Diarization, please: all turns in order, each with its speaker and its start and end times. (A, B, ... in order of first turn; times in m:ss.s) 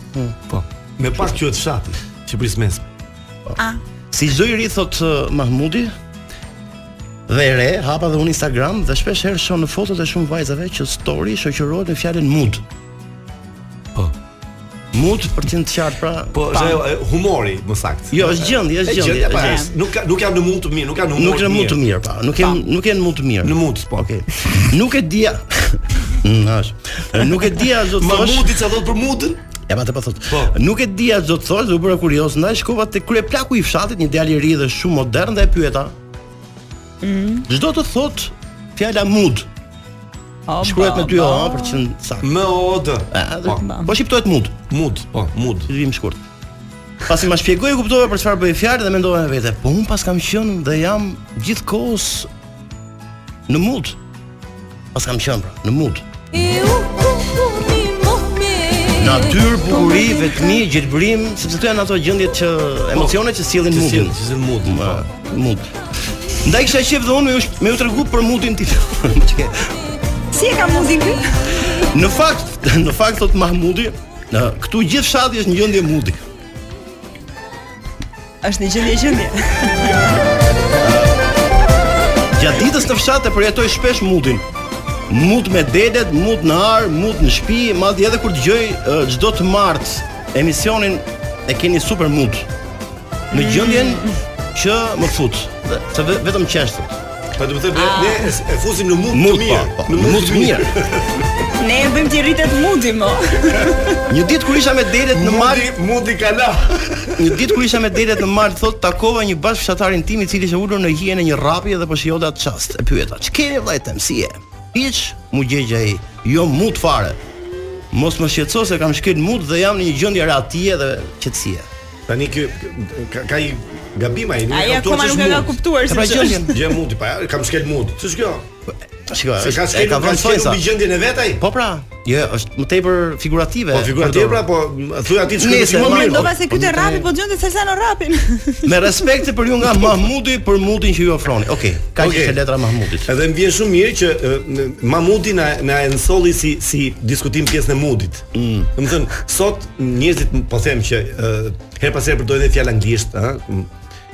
0:00.5-0:02.9 A
0:04.1-0:05.9 B
0:07.3-0:12.6 B
0:14.9-0:16.8 B
0:16.3-0:21.8 A
0:18.1-0:19.6 B
0:19.4-0:19.7 C
0:21.2-0:28.5 B
0:23.4-0:24.1 A
0:28.0-0:29.4 A
0:29.7-0:35.9 B
0:30.3-0:30.5 A
0:37.0-0:37.4 C
0:37.5-0:39.5 B
0:40.5-0:41.8 C
0:40.6-0:42.3 B
0:42.2-0:43.6 A
0:43.1-0:44.6 B
0:43.5-0:43.9 C
0:44.7-0:45.7 A
0:45.7-0:46.2 B
0:47.1-0:52.3 B
0:53.5-0:54.0 B
0:54.9-0:56.0 B
0:58.9-1:05.7 B
1:02.9-1:05.1 A
1:06.4-1:09.7 B
1:10.3-1:11.7 C
1:11.9-1:16.2 B
1:18.4-1:19.9 C
1:20.8-1:21.2 B
1:22.4-1:24.4 B
1:25.1-1:32.5 B
1:33.3-1:37.0 B
1:33.3-1:34.1 C
1:37.4-1:41.3 A
1:37.7-1:38.3 C
1:39.1-1:40.7 B
1:41.6-1:44.0 C
1:44.1-1:45.7 B
1:45.1-1:47.8 A
1:47.2-1:57.2 B
1:57.9-2:01.7 B
2:02.1-2:05.6 A
2:04.5-2:06.5 C
2:05.8-2:06.5 B
2:06.5-2:08.5 A
2:09.0-2:10.6 B
2:09.4-2:11.4 A
2:11.4-2:14.4 B
2:13.7-2:16.3 A
2:15.4-2:17.1 B
2:15.9-2:18.9 C
2:18.6-2:23.1 B
2:22.0-2:22.4 A
2:23.0-2:33.7 A
2:28.3-2:28.7 B